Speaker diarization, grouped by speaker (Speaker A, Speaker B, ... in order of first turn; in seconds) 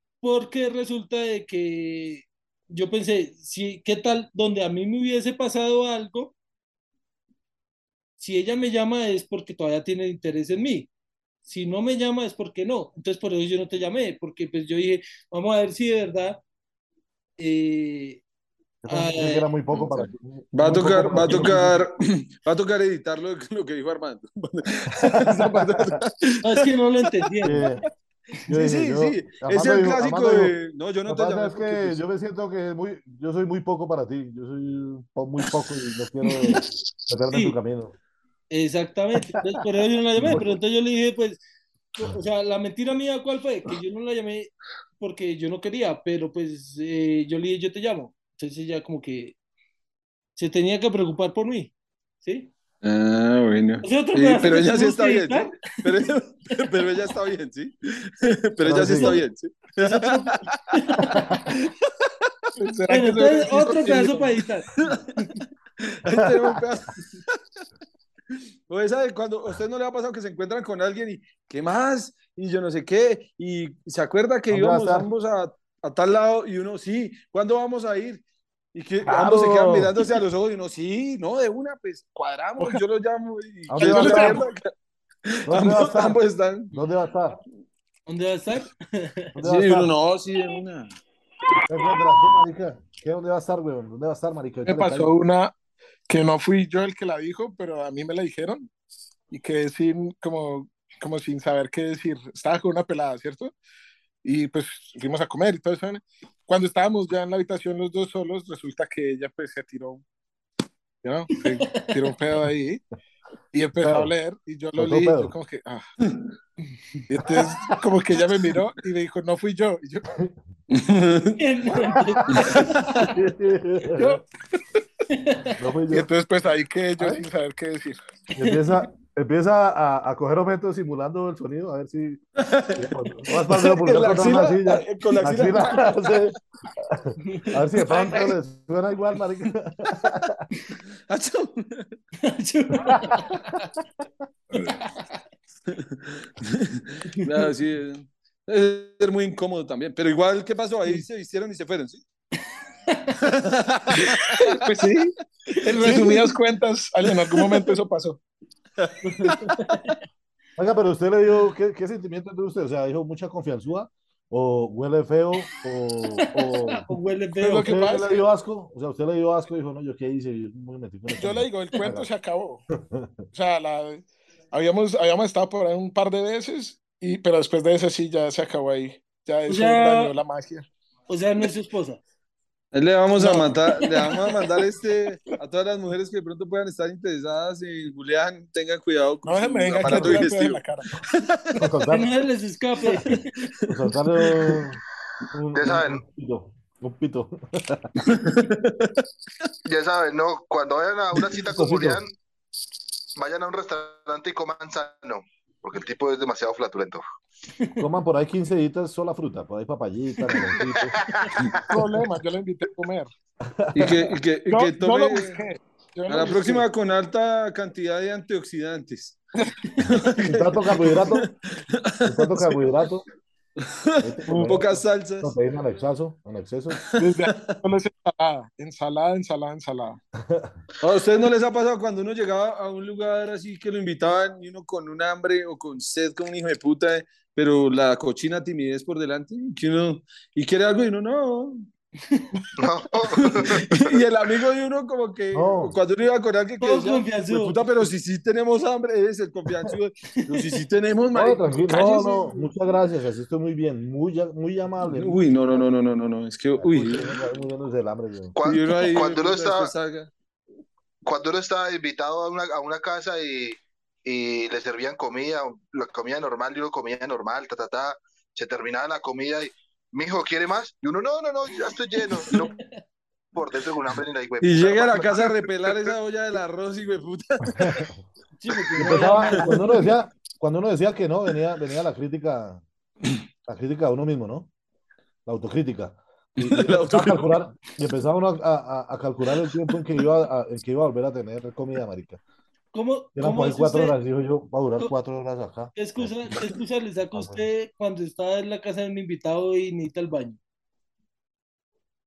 Speaker A: 0.2-6.3, 8.2-10.9, 11.4-16.4, 17.4-18.2, 18.9-19.5, 26.4-27.7, 36.3-36.7, 37.3-37.6, 38.5-41.4, 41.9-49.4, 50.4-52.5, 53.8-55.6, 58.9-59.2, 59.8-61.4, 62.9-65.2, 88.1-89.3, 111.3-112.0, 121.4-123.1, 125.1-125.6, 128.4-128.8, 137.2-138.3, 142.2-143.6, 144.7-145.0, 147.1-147.4, 152.9-153.2, 155.6-156.3, 159.0-159.9, 166.2-168.2, 179.5-180.1, 181.1-182.0, 191.9-193.2, 246.6-247.6, 250.2-250.5, 272.0-272.8, 278.4-280.0, 292.7-294.0, 295.7-300.4
Speaker B: 18.8-21.8, 24.9-26.0, 27.4-27.8, 28.5-30.5, 31.1-38.0, 40.1-40.5, 58.6-59.2, 61.1-61.3, 66.1-66.6, 74.5-75.1, 79.0-79.9, 83.7-84.4, 85.5-86.2, 86.7-87.4, 89.3-89.9, 91.7-95.1, 113.8-114.1, 114.7-115.3, 121.8-124.2, 125.5-126.1, 127.0-127.2, 128.3-132.2, 132.8-140.4, 142.8-143.6, 160.6-166.9, 167.4-172.1, 189.8-190.2, 191.6-192.1, 193.7-194.8, 195.3-197.9, 201.5-202.0, 207.8-211.0, 213.5-214.0, 219.9-221.3, 222.0-223.0, 224.0-226.8, 230.2-230.5, 245.3-245.8, 251.1-255.7, 256.6-258.4, 277.6-277.9, 278.7-282.6, 283.4-284.5, 285.2-292.2, 293.1-296.4, 297.1-297.4
Speaker C: 20.5-26.7, 27.2-27.7, 28.5-32.0, 52.8-62.1, 64.8-65.1, 65.8-67.4, 68.7-78.2, 78.7-84.7, 85.3-86.7, 89.4-91.0, 120.7-121.4, 122.3-123.1, 132.4-136.2, 141.1-141.9, 145.7-152.0, 153.2-154.6, 158.8-159.8, 182.7-191.6, 192.8-193.7, 198.1-198.9, 213.7-215.3, 216.1-219.2, 219.9-222.5, 223.6-225.3, 226.7-227.6, 230.8-241.7, 243.1-252.3, 254.8-257.1, 258.4-260.1, 274.4-277.8, 279.0-279.4, 286.4-287.4
Speaker D: 62.6-64.3, 83.8-84.5, 94.7-95.5, 96.1-98.7, 99.3-103.5, 104.2-110.0, 111.0-112.8, 113.5-115.8, 117.1-120.0, 124.0-124.2, 125.9-128.0, 153.9-158.2, 167.4-168.1, 171.2-172.6, 173.3-180.7, 183.2-184.0, 189.2-190.9, 211.7-213.1, 214.5-216.6, 227.0-230.0
Speaker E: 195.5-196.0, 199.6-202.1, 203.2-207.0, 210.7-211.8, 242.6-243.8, 258.3-259.7, 261.0-272.5, 273.3-275.9